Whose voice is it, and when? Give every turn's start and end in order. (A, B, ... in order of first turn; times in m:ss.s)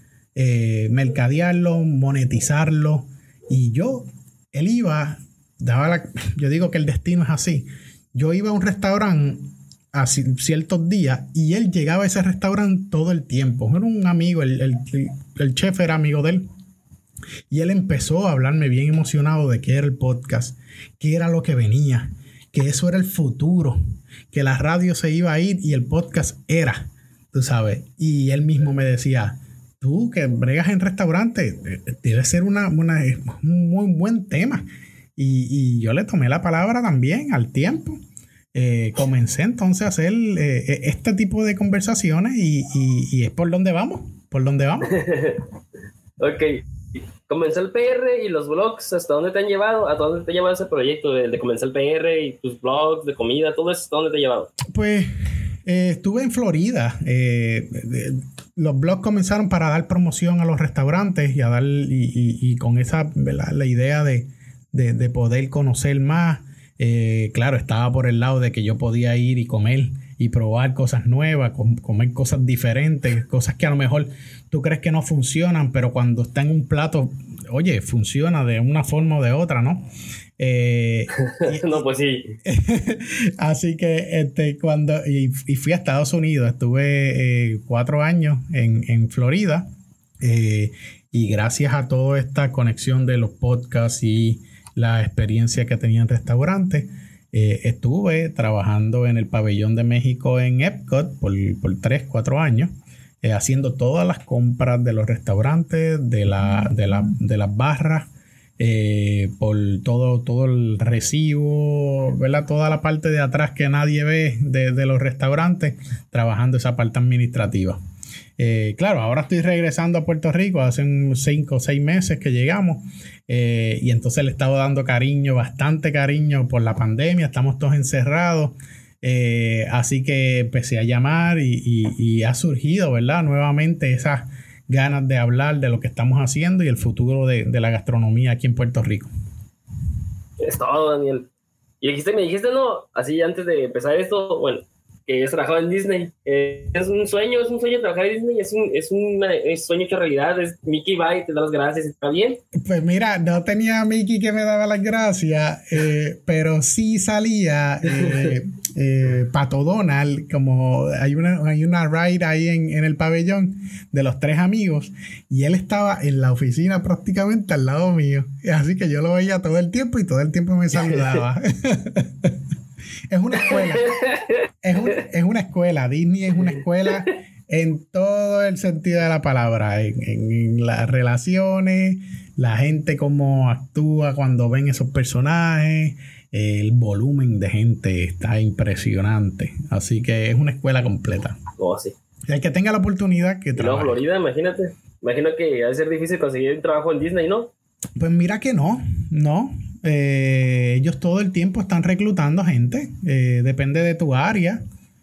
0:00.3-0:16.4 A
0:17.5-0:23.8 A
0:24.3-0:34.6 A
0:35.2-0:38.0 A
0:38.5-0:44.9 A
0:44.9-0:45.4 B
0:46.2-0:46.6 B
0:47.3-0:54.5 B
0:54.7-0:55.1 A
0:55.6-1:19.9 A
1:20.4-1:21.9 A
1:21.2-1:22.4 B
1:22.4-1:29.7 A
1:30.2-1:42.7 A
1:43.2-1:57.8 A
1:58.4-2:19.1 A
2:20.4-2:21.3 B
2:21.8-2:32.4 B
2:32.7-2:52.4 A
2:50.7-2:51.2 B
2:53.1-2:53.9 A
2:53.4-2:55.0 B
2:54.6-3:11.4 A
3:11.6-3:11.9 B
3:12.3-3:14.0 A
3:13.6-3:17.5 B
3:18.0-3:24.6 A